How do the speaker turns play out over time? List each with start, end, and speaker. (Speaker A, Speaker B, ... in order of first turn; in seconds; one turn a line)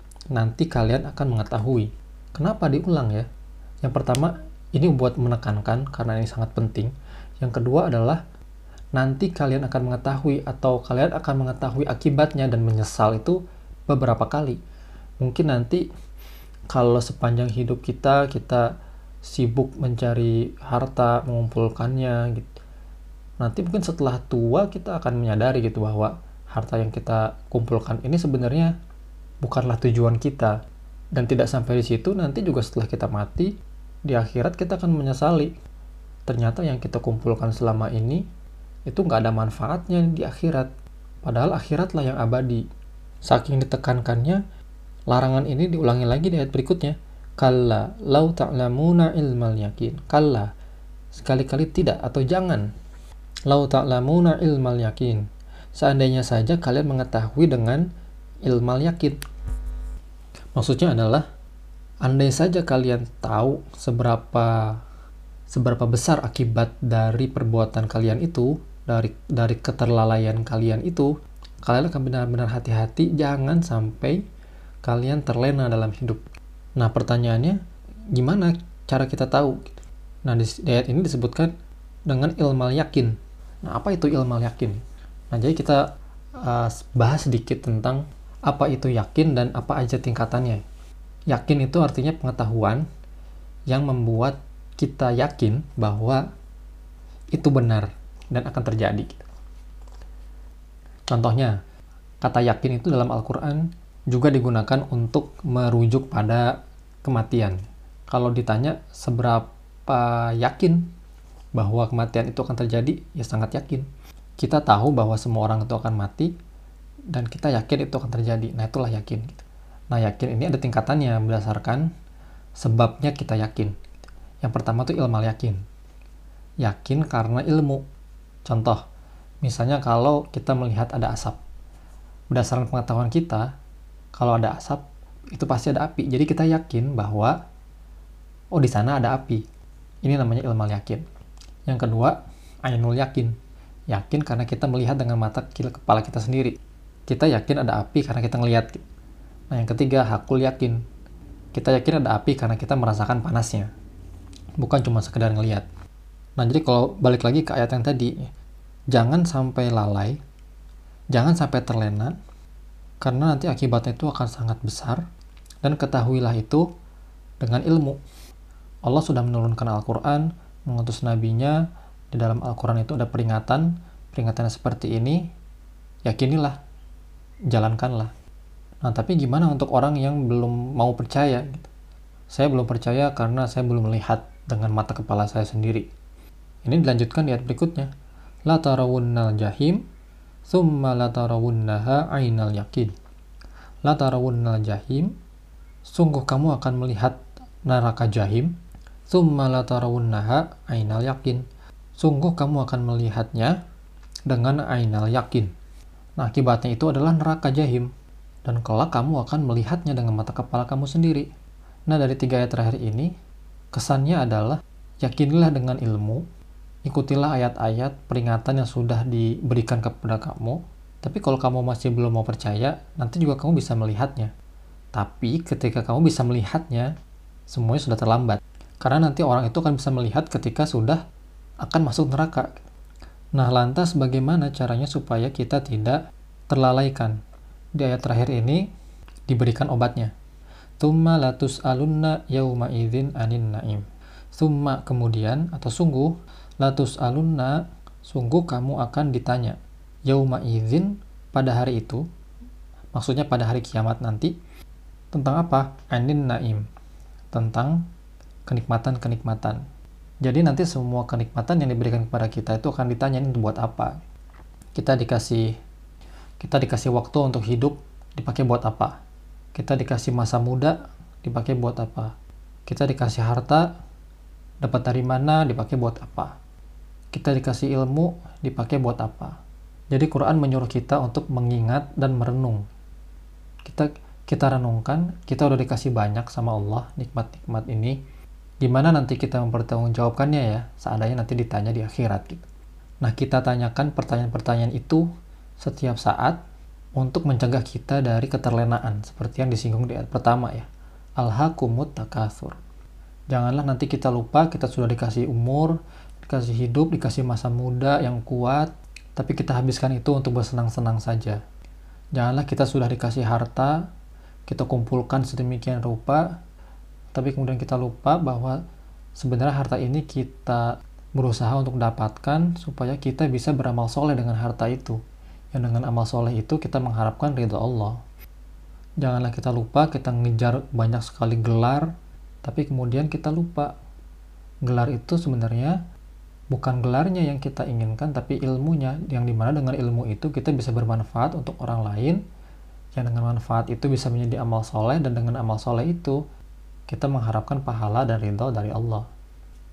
Speaker A: 0.3-3.3
Speaker A: 3.8-8.2
Speaker A: 8.9-14.6
Speaker A: 15.2-15.8
Speaker A: 16.7-18.7
Speaker A: 19.2-22.5
Speaker A: 23.4-28.7
Speaker A: 29.4-30.6
Speaker A: 31.1-33.5
Speaker A: 34.0-35.5
Speaker A: 36.2-38.2
Speaker A: 38.9-40.7
Speaker A: 41.2-42.6
Speaker A: 43.2-44.4
Speaker A: 45.1-50.5
Speaker A: 51.1-52.7
Speaker A: 53.5-57.9
Speaker A: 58.4-59.2
Speaker A: 60.5-61.2
Speaker A: 62.0-64.8
Speaker A: 65.5-71.1
Speaker A: 71.6-74.2
Speaker A: 74.8-76.2
Speaker A: 76.8-77.6
Speaker A: 78.1-79.7
Speaker A: 80.2-81.5
Speaker A: 82.1-84.8
Speaker A: 85.3-85.8
Speaker A: 86.4-90.6
Speaker A: 91.3-92.8
Speaker A: 93.7-96.2
Speaker A: 97.3-99.3
Speaker A: 101.1-101.5
Speaker A: 102.2-106.5
Speaker A: 107.0-110.9
Speaker A: 111.5-113.9
Speaker A: 114.4-116.3
Speaker A: 117.1-121.9
Speaker A: 122.6-123.7
Speaker A: 124.4-125.6
Speaker A: 126.6-127.8
Speaker A: 128.4-128.8
Speaker A: 129.4-131.4
Speaker A: 132.3-133.5
Speaker A: 134.2-137.4
Speaker A: 138.5-139.4
Speaker A: 140.0-141.0
Speaker A: 141.7-143.3
Speaker A: 143.9-148.8
Speaker A: 149.5-150.8
Speaker A: 151.5-153.7
Speaker A: 154.6-155.7
Speaker A: 156.4-158.3
Speaker A: 158.9-160.2
Speaker A: 161.1-162.1
Speaker A: 163.0-165.0
Speaker A: 165.6-166.7
Speaker A: 167.4-168.0
Speaker A: 168.8-171.6
Speaker A: 172.1-175.2
Speaker A: 176.0-176.6
Speaker A: 177.5-178.1
Speaker A: 178.8-181.7
Speaker A: 182.3-185.9
Speaker A: 186.6-187.9
Speaker A: 188.5-189.8
Speaker A: 190.5-192.9
Speaker A: 193.8-195.1
Speaker A: 195.8-198.5
Speaker A: 199.1-201.4
Speaker A: 202.0-203.6
Speaker A: 204.3-205.5
Speaker A: 206.2-207.9
Speaker A: 208.4-211.3
Speaker A: 211.9-213.1
Speaker A: 213.7-216.2
Speaker A: 216.8-224.3
Speaker A: 224.9-226.9
Speaker A: 227.5-231.0
Speaker A: 231.6-232.5
Speaker A: 233.3-237.2
Speaker A: 237.8-238.7
Speaker A: 239.3-240.1
Speaker A: 240.8-252.0
Speaker A: 252.9-254.3
Speaker A: 255.1-256.6
Speaker A: 257.3-257.8
Speaker A: 258.5-259.6
Speaker A: 260.2-264.0
Speaker A: 264.7-265.5
Speaker A: 266.4-268.9
Speaker A: 269.5-272.1
Speaker A: 272.6-273.7
Speaker A: 274.6-276.4
Speaker A: 277.1-279.4
Speaker A: 279.9-282.6
Speaker A: 283.6-288.0
Speaker A: 288.6-292.4
Speaker A: 293.0-295.1
Speaker A: 295.6-296.4
Speaker A: 297.0-300.7
Speaker A: 301.2-302.6
Speaker A: 303.3-311.4
Speaker A: 312.1-313.8
Speaker A: 314.5-316.3
Speaker A: 317.1-318.6
Speaker A: 319.2-325.0
Speaker A: 325.5-328.0
Speaker A: 329.0-331.9
Speaker A: 332.4-333.7
Speaker A: 334.6-335.8
Speaker A: 336.5-342.2
Speaker A: 342.9-346.2
Speaker A: 346.9-349.1